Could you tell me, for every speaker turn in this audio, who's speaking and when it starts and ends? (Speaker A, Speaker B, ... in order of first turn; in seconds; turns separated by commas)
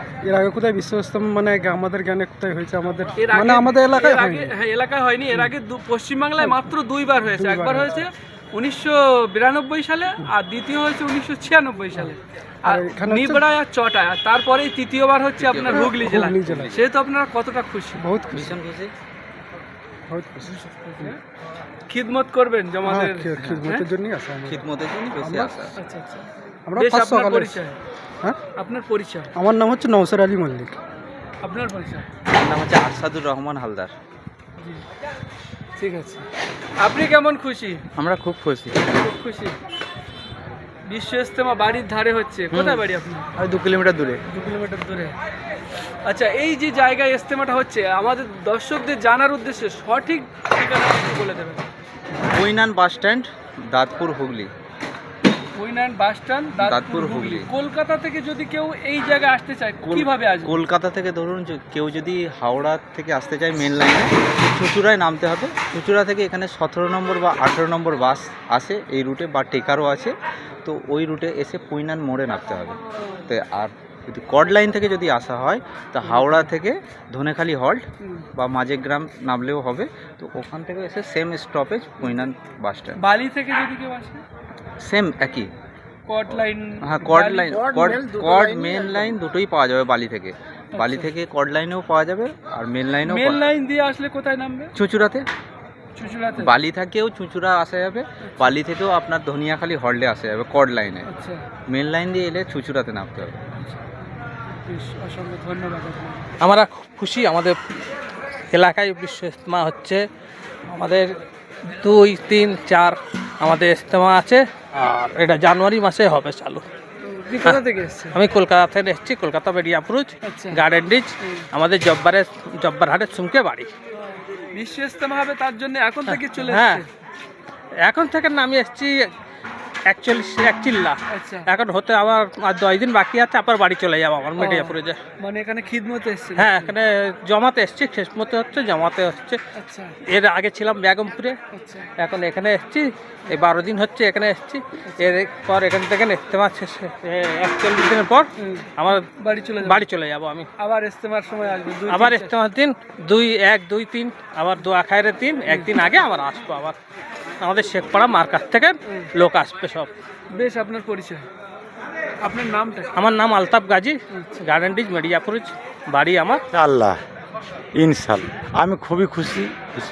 Speaker A: 0.2-4.5, Speaker B: 3.2-18.0, Speaker A: 6.4-6.7, Speaker A: 7.3-7.9, Speaker A: 12.7-13.5, Speaker C: 15.4-16.8, Speaker A: 15.7-16.8, Speaker A: 18.0-18.6, Speaker C: 18.3-18.9, Speaker A: 20.1-21.1, Speaker B: 20.4-21.2, Speaker B: 21.9-23.9, Speaker A: 22.9-24.6, Speaker C: 23.4-23.6, Speaker C: 24.4-25.8, Speaker A: 25.2-25.6, Speaker B: 25.8-27.8, Speaker A: 26.7-27.6, Speaker B: 28.6-29.3, Speaker A: 29.4-30.8, Speaker B: 31.4-32.1, Speaker C: 32.3-33.9, Speaker B: 35.8-36.3, Speaker B: 36.8-37.8, Speaker C: 38.0-39.0, Speaker B: 39.0-39.6, Speaker B: 40.9-43.3, Speaker C: 42.5-42.8, Speaker C: 43.4-44.2, Speaker B: 44.3-45.1, Speaker B: 46.0-51.7, Speaker C: 52.2-54.5, Speaker B: 55.6-60.6, Speaker C: 56.6-57.5, Speaker C: 59.8-77.8, Speaker B: 76.0-76.5, Speaker C: 78.4-83.0, Speaker B: 82.0-82.3, Speaker B: 83.0-84.2, Speaker C: 84.8-85.5, Speaker B: 86.1-88.4, Speaker C: 86.3-93.4, Speaker B: 90.8-91.1, Speaker B: 93.1-94.7, Speaker C: 94.8-95.3, Speaker B: 96.0-96.5, Speaker C: 96.4-101.1, Speaker B: 101.1-101.5, Speaker C: 101.7-103.4, Speaker B: 104.5-106.3, Speaker D: 106.4-107.6, Speaker D: 108.5-110.0, Speaker D: 110.7-111.1, Speaker D: 111.7-116.6, Speaker B: 117.0-118.2, Speaker D: 118.1-123.7, Speaker B: 120.2-120.6, Speaker B: 121.2-121.5, Speaker B: 124.1-126.9, Speaker D: 126.1-126.8, Speaker D: 127.8-128.9, Speaker D: 129.9-135.0, Speaker B: 131.1-131.5, Speaker B: 134.4-136.7, Speaker D: 136.4-139.4, Speaker B: 139.6-140.0, Speaker D: 140.1-141.4, Speaker B: 141.5-141.9, Speaker D: 142.0-149.1, Speaker B: 148.4-149.8, Speaker D: 149.6-150.5, Speaker B: 150.6-152.3, Speaker D: 151.9-156.8, Speaker D: 157.4-159.9, Speaker B: 160.3-161.3, Speaker B: 162.2-162.9, Speaker D: 163.0-166.4, Speaker B: 164.1-164.4, Speaker E: 166.6-167.0, Speaker E: 167.8-169.6